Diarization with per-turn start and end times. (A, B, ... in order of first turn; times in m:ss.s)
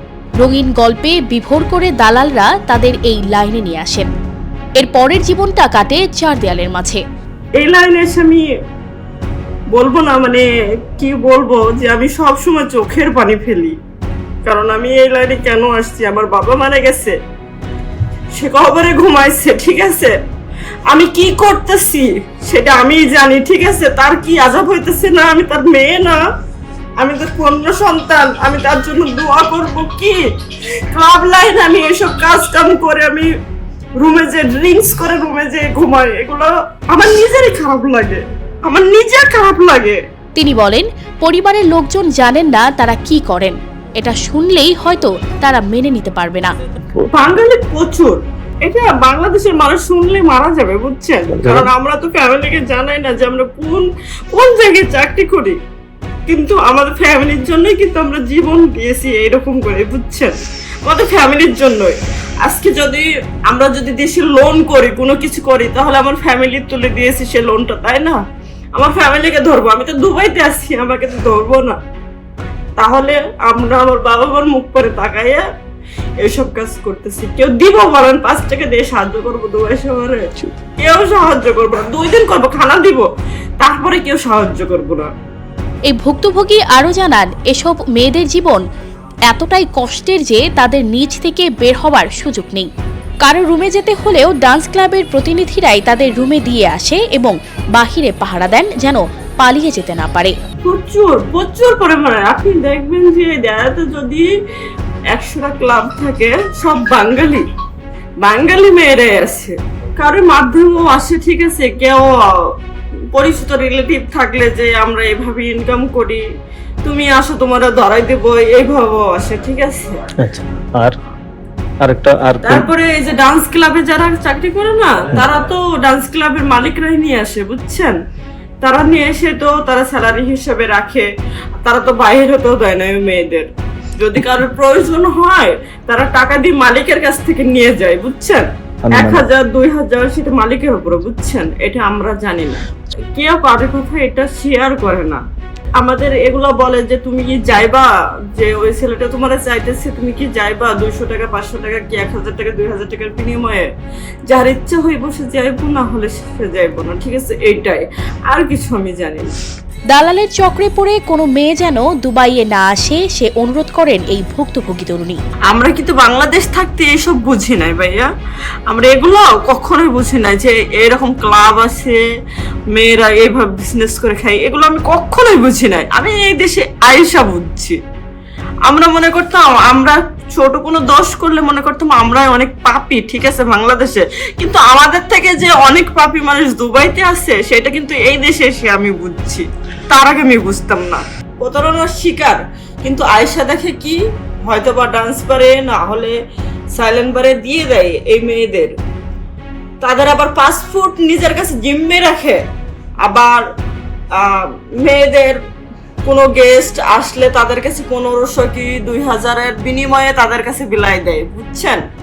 0:00.4-0:04.1 A
0:04.8-0:07.0 A
0:07.6-0:08.5 B
0:09.7-0:13.8 B
0:14.4-0:17.1 B
0:18.4-0:20.1 B
0:20.9-0:26.2 B
0:27.0-0:30.2 B
0:30.9-0:33.3 B
0:34.0-0:40.0 B
0:40.3-0:46.6 A
0:47.1-0:55.6 B
0:51.3-0:51.7 C
0:56.3-1:00.3 B
1:00.8-1:08.2 B
1:08.8-1:11.8 B
1:12.8-1:15.4 B
1:16.2-1:23.0 B
1:23.6-1:25.1 B
1:25.9-1:28.6 A
1:29.3-1:32.7 A
1:33.2-1:40.3 A
1:40.6-1:44.3 B
1:45.1-1:47.4 B
1:48.2-1:52.5 B
1:53.1-1:56.2 B
1:56.8-2:00.0 B
2:00.2-2:00.9 C
2:01.8-2:02.7 C
2:02.4-2:08.0 B
2:08.6-2:11.1 B
2:11.6-2:25.2 B
2:18.9-2:19.2 C
2:25.8-2:33.7 B
2:34.3-2:39.3 B
2:39.9-2:45.2 A
2:45.5-2:48.1 B
2:48.7-2:52.0 B
2:52.7-2:57.8 B
2:58.6-3:16.1 B
3:16.7-3:18.7 B
3:19.8-3:22.4 B
3:23.0-3:23.4 B
3:24.2-3:25.4 B
3:26.0-3:31.8 B